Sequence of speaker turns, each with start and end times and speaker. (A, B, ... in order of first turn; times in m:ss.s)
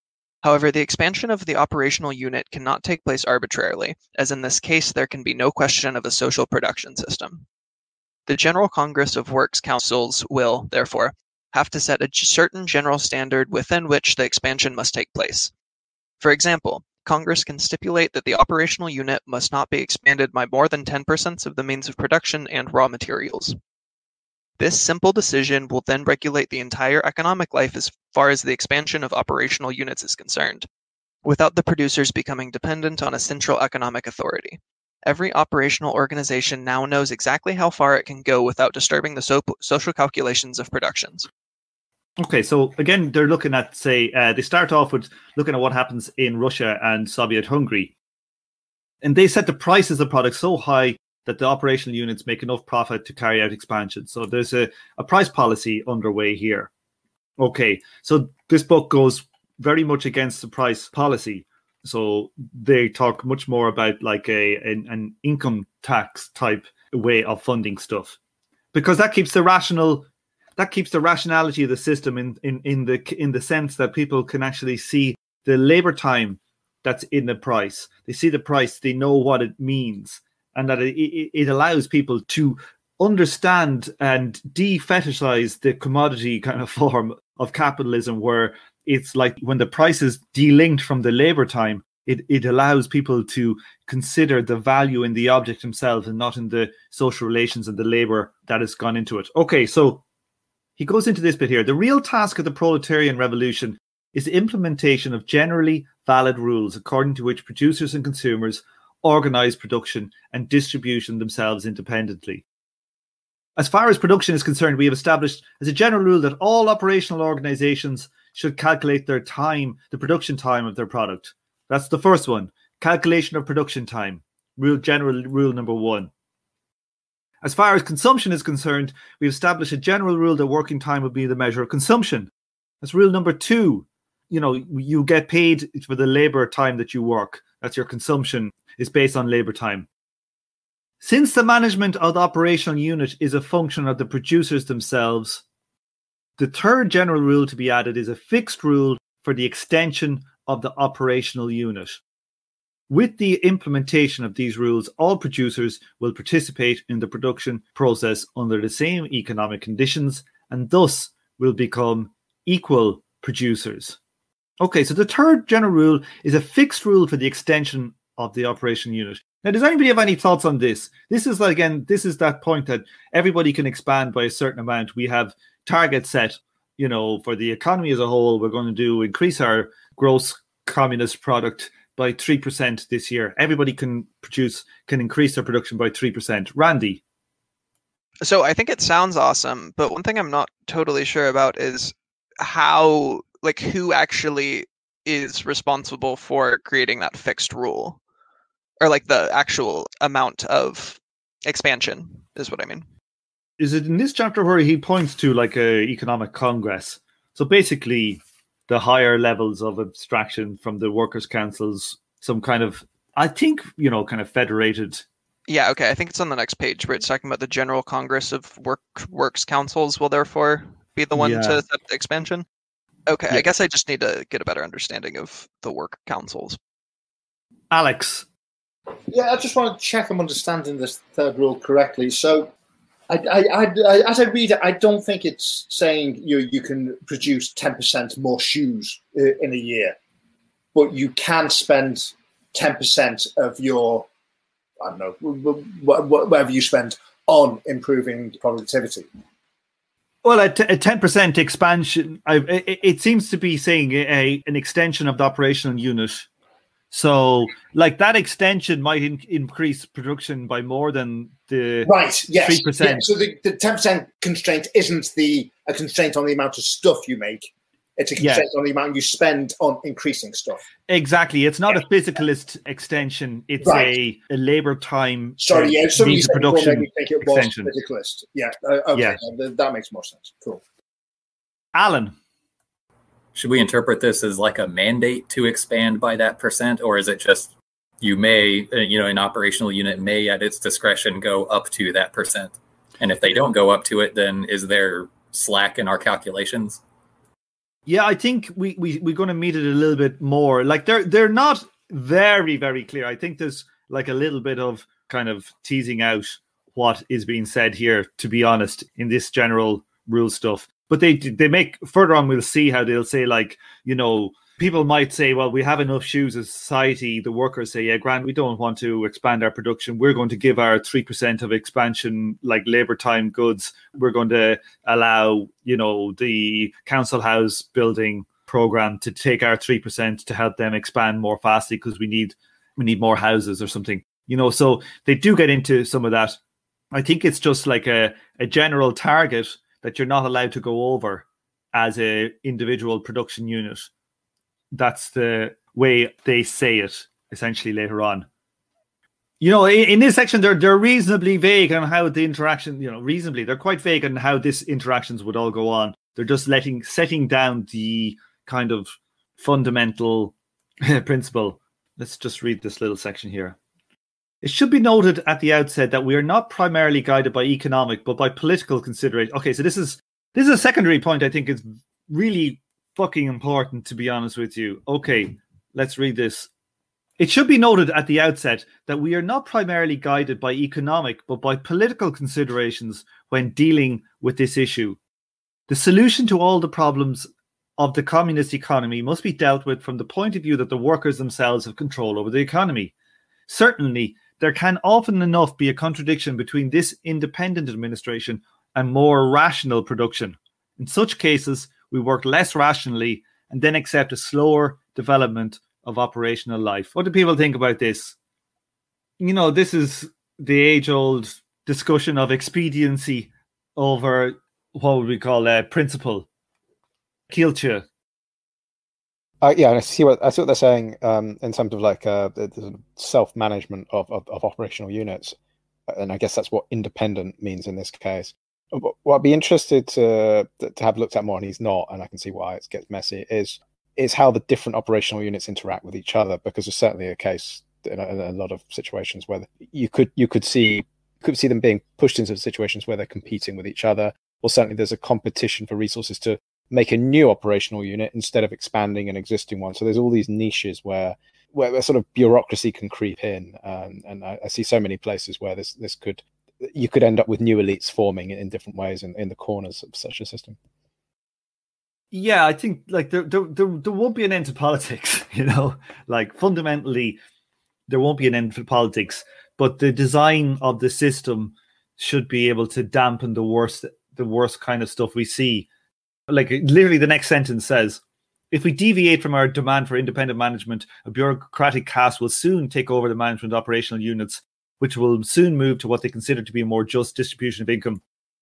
0:00.4-0:07.4 A
0:08.3-0:15.5 A
0:16.2-0:23.6 A
0:24.6-0:30.7 A
0:31.2-0:41.3 A
0:42.2-0:47.9 B
0:49.0-0:56.7 B
0:57.4-1:08.2 B
1:08.7-1:10.1 B
1:10.6-1:40.0 B
1:40.8-1:52.4 B
1:53.6-2:06.1 B
2:07.4-2:12.3 B
2:12.8-2:19.9 B
2:21.0-2:25.4 B
2:26.4-2:32.0 B
2:32.9-2:44.0 B
2:44.6-3:07.0 B
3:08.2-3:18.0 A
3:18.8-3:22.9 A
3:23.6-3:35.0 B
3:35.5-3:42.5 A
3:41.1-3:41.6 B
3:43.1-3:46.6 A
3:47.7-3:48.3 B
3:49.1-3:52.5 C
3:53.1-4:00.0 C
4:00.8-4:04.1 C
4:04.8-4:09.1 C
4:10.2-4:16.3 B
4:16.9-4:23.1 B
4:21.9-4:30.6 C
4:28.2-4:28.5 B
4:30.9-4:37.7 B
4:33.6-4:33.9 C
4:35.4-4:40.6 C
4:38.9-4:39.2 B
4:41.8-4:42.1 B
4:43.4-4:56.8 D
4:57.9-5:36.4 B
5:36.9-5:43.9 B
5:44.7-5:48.3 B
5:49.4-6:03.6 B
6:04.4-6:16.5 B
6:17.2-6:25.0 B
6:25.7-6:32.9 B
6:33.5-6:48.2 B
6:49.2-6:56.3 B
6:57.3-6:57.8 B
6:59.4-7:05.4 E
7:05.9-7:40.6 E
7:42.1-7:47.2 B
7:47.9-7:55.7 B
7:56.3-8:08.0 B